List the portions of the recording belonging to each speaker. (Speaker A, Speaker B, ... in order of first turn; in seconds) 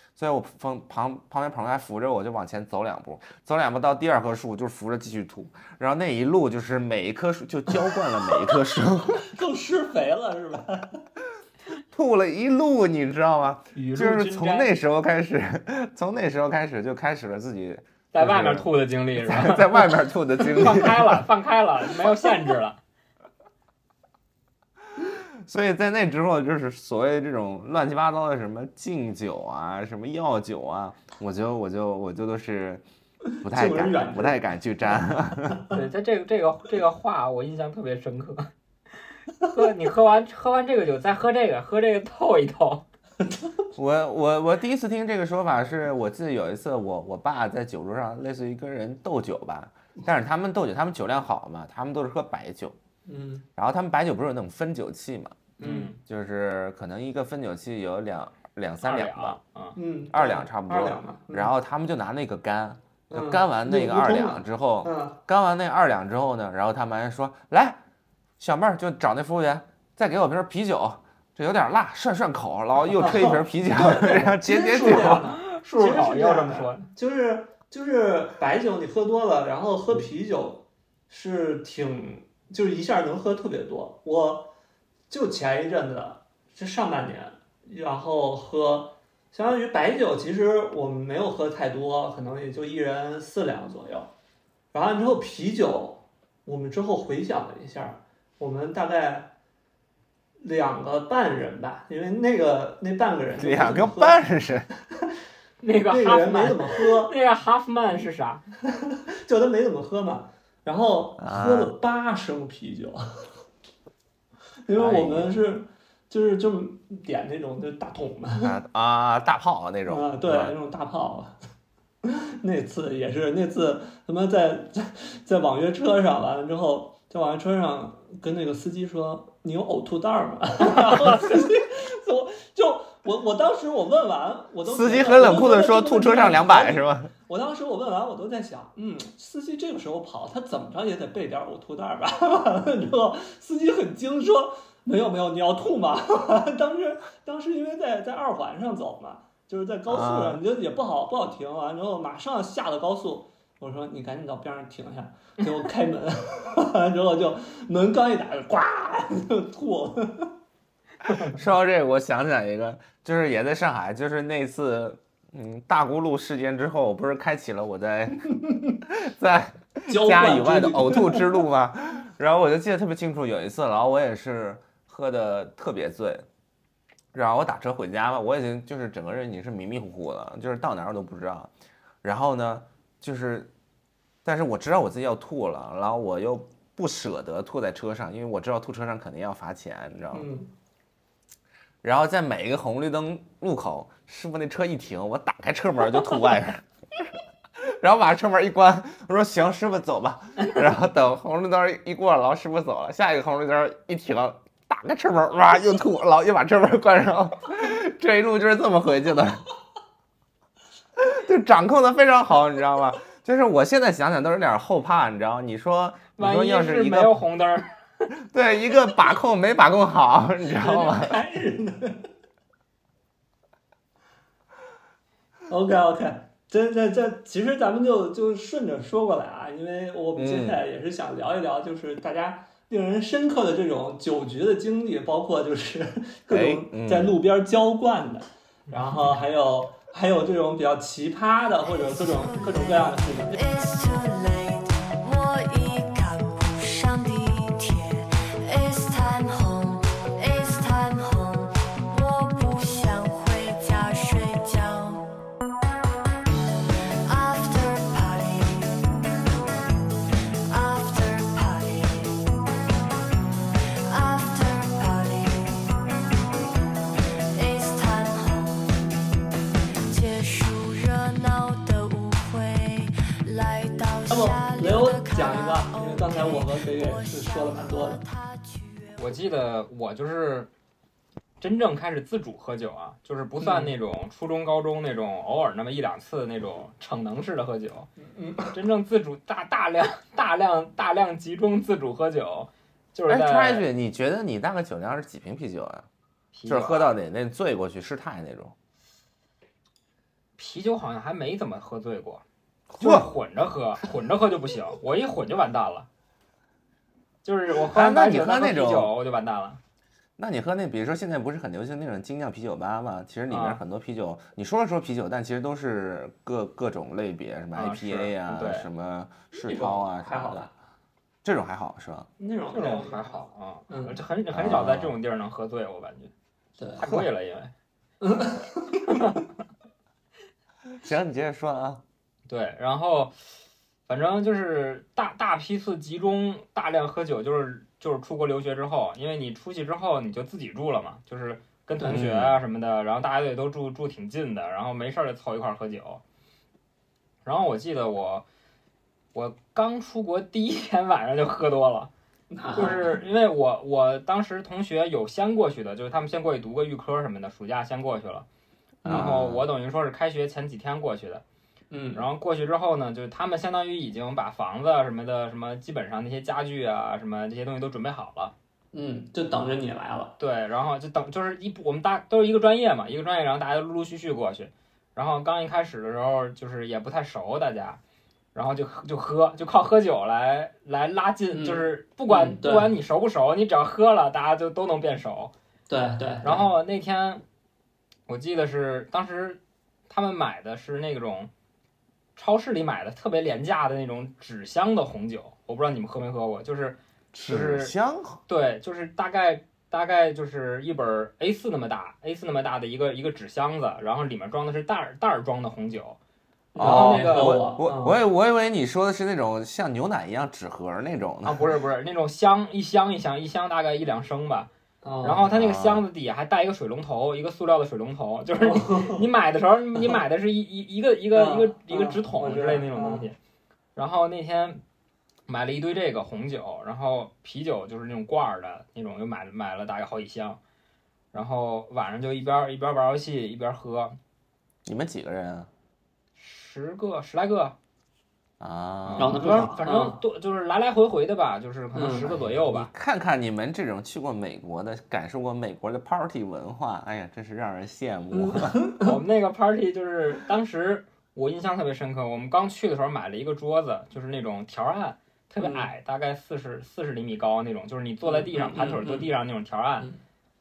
Speaker A: 0.1-9.3, 11.9-21.2, 25.0-32.8, 33.4-35.6, 43.8-52.8, 53.6-55.5, 56.0-59.4, 60.1-67.8, 68.4-75.2, 103.4-104.7, 111.2-111.7, 114.7-115.4, 118.4-120.5, 134.6-137.1, 149.9-150.4, 161.2-176.2, 177.1-181.5, 182.0-183.5, 184.2-190.3, 191.8-197.1, 197.6-209.4, 211.0-217.2, 218.2-221.2, 230.2-230.6, 236.3-237.2, 293.1-295.9, 296.5-298.5, 302.7-303.1, 307.7-308.9, 310.2-320.5, 321.2-322.1, 324.3-324.9, 330.8-331.8, 341.9-342.4, 358.8-359.4, 397.1-398.2, 406.6-411.5, 415.3-415.8, 434.6-435.5, 438.4-439.5, 442.4-448.6
Speaker B: 9.1-11.0, 33.4-34.5, 53.0-53.5, 55.6-55.9, 59.8-61.5, 63.1-65.2, 72.9-84.5, 85.1-94.1, 94.7-99.3, 100.4-104.2, 105.9-107.1, 108.7-113.2, 114.6-118.6, 119.8-121.3, 122.0-160.3, 169.9-171.4, 190.1-190.5, 220.5-222.1, 225.5-243.4, 274.1-278.0, 283.4-283.7, 288.0-288.5, 319.3-320.5, 322.2-323.1, 323.7-324.0, 326.6-326.8, 328.0-329.0, 341.8-342.1, 352.3-353.0, 358.9-359.1, 361.7-362.1, 368.7-370.1, 381.3-382.7, 385.7-386.5, 406.5-408.0, 414.8-415.2, 418.4-419.0, 421.1-423.1, 439.0-440.0, 441.7-442.3, 448.1-449.0, 455.4-455.7, 458.0-459.1
Speaker C: 13.7-14.7, 18.1-22.8, 35.7-38.5, 39.4-42.9, 55.6-56.0, 58.8-59.8, 74.8-76.9, 105.6-108.4, 216.2-217.7, 279.0-280.5, 281.4-287.9, 288.5-293.6, 296.3-296.9, 300.4-302.2, 302.8-305.9, 307.2-309.6, 313.3-313.6, 317.5-318.7, 322.5-326.1, 326.8-327.5, 328.9-329.2, 332.3-333.1, 333.9-346.0, 347.2-348.2, 349.1-351.9, 352.6-358.2, 358.9-361.2, 361.9-368.3, 370.2-377.8, 378.3-385.3, 386.2-387.2, 388.1-391.3, 392.1-397.7, 398.3-406.0, 406.6-407.4, 411.2-414.5, 415.0-423.2, 423.7-424.6, 425.3-430.4, 431.1-434.0, 436.2-437.6, 438.9-442.7, 448.8-459.9
Speaker D: 241.7-255.0, 257.1-258.8, 260.5-262.2, 263.9-265.7, 267.3-268.8, 269.9-279.2